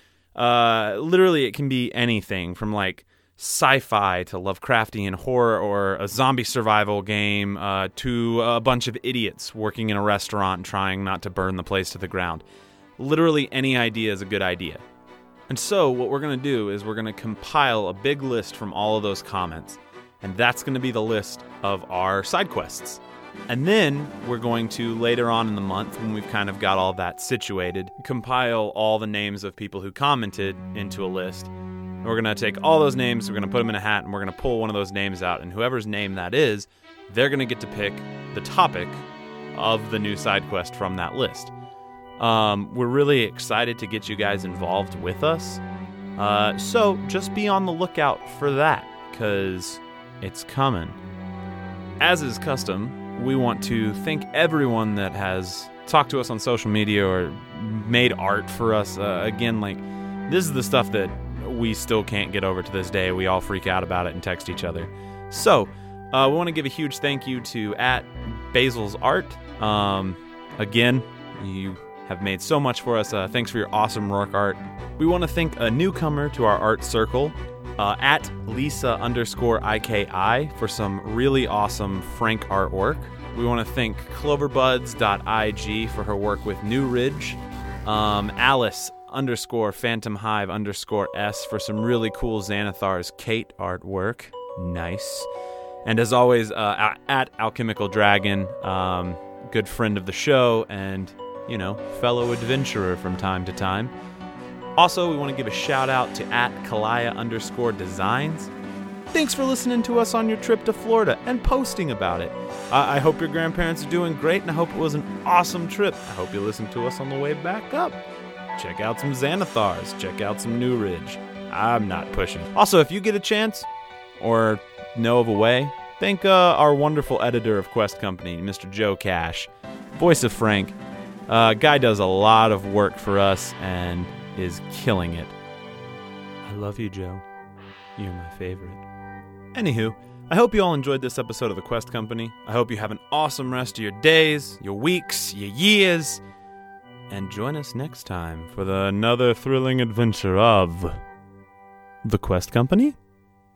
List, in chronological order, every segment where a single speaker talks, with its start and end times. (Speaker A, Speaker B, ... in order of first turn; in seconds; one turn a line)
Speaker A: 0.3-12.4
Speaker A: 13.0-14.8
Speaker A: 15.5-31.5
Speaker A: 32.0-39.0
Speaker A: 39.5-41.5
Speaker A: 42.2-45.6
Speaker A: 46.2-51.0
Speaker A: 52.0-95.3
Speaker A: 95.8-103.9
Speaker A: 104.8-108.5
Speaker A: 109.1-118.0
Speaker A: 118.6-123.7
Speaker A: 124.2-135.3
Speaker A: 136.4-137.2
Speaker A: 138.0-138.8
Speaker A: 139.5-146.2
Speaker A: 147.1-151.0
Speaker A: 152.0-152.9